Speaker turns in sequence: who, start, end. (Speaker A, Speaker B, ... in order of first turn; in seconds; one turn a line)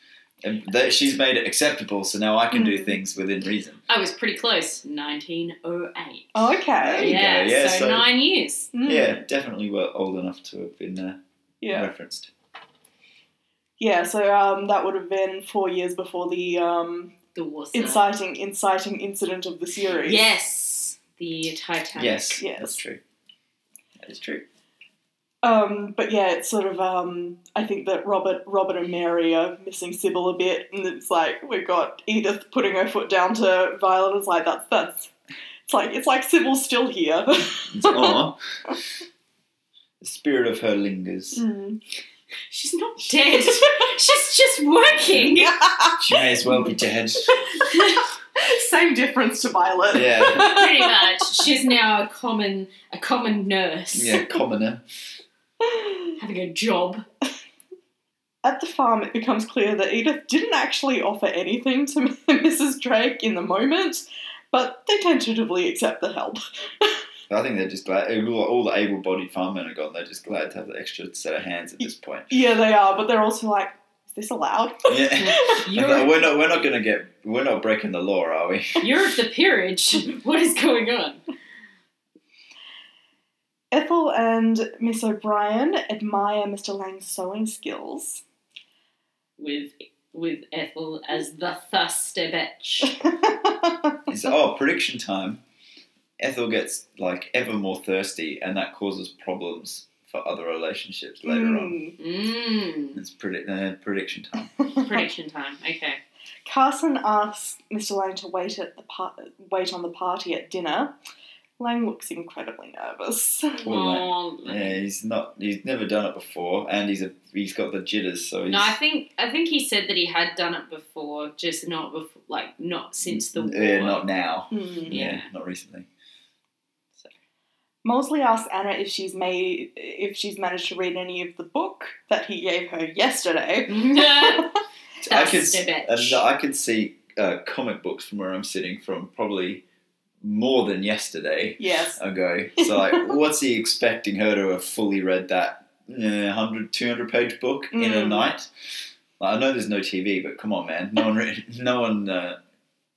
Speaker A: 0.4-3.8
Speaker B: 2.5-2.9
Speaker C: 3.9-8.7
Speaker B: 6.3-7.2
Speaker A: 6.8-8.1
Speaker B: 8.7-9.2
Speaker A: 8.8-11.2
Speaker B: 11.6-11.9
Speaker A: 11.7-12.3
Speaker B: 13.8-17.1
Speaker C: 17.3-18.0
Speaker B: 17.7-20.4
Speaker C: 20.0-22.4
Speaker A: 21.9-23.0
Speaker B: 22.4-22.8
Speaker A: 24.0-24.4
Speaker B: 25.4-35.1
Speaker B: 35.7-38.2
Speaker A: 37.7-38.4
Speaker A: 40.0-41.4
Speaker B: 41.3-41.8
Speaker C: 42.5-45.5
Speaker A: 45.1-45.3
Speaker B: 45.4-46.7
Speaker A: 46.0-47.4
Speaker B: 47.6-51.5
Speaker A: 49.9-50.6
Speaker C: 50.3-54.2
Speaker A: 53.9-54.8
Speaker B: 55.6-56.1
Speaker C: 56.2-57.0
Speaker B: 58.4-67.0
Speaker A: 67.3-72.3
Speaker B: 72.3-75.7
Speaker A: 74.9-78.8
Speaker C: 75.2-76.1
Speaker C: 78.8-81.2
Speaker B: 83.7-88.2
Speaker C: 89.4-93.0
Speaker B: 92.8-94.3
Speaker A: 94.1-95.4
Speaker A: 96.2-101.8
Speaker B: 101.2-102.0
Speaker C: 102.0-103.0
Speaker A: 102.9-104.5
Speaker B: 104.7-105.0
Speaker C: 104.8-106.0
Speaker B: 106.5-111.0
Speaker B: 111.6-113.6
Speaker C: 113.6-114.8
Speaker A: 113.7-118.8
Speaker C: 118.5-124.0
Speaker A: 123.1-125.9
Speaker B: 124.5-125.0
Speaker C: 124.9-125.3
Speaker B: 127.8-134.6
Speaker C: 133.7-136.2
Speaker A: 135.0-139.6
Speaker A: 140.2-148.5
Speaker B: 141.6-142.0
Speaker B: 142.6-143.1
Speaker B: 147.7-148.3
Speaker A: 149.2-152.4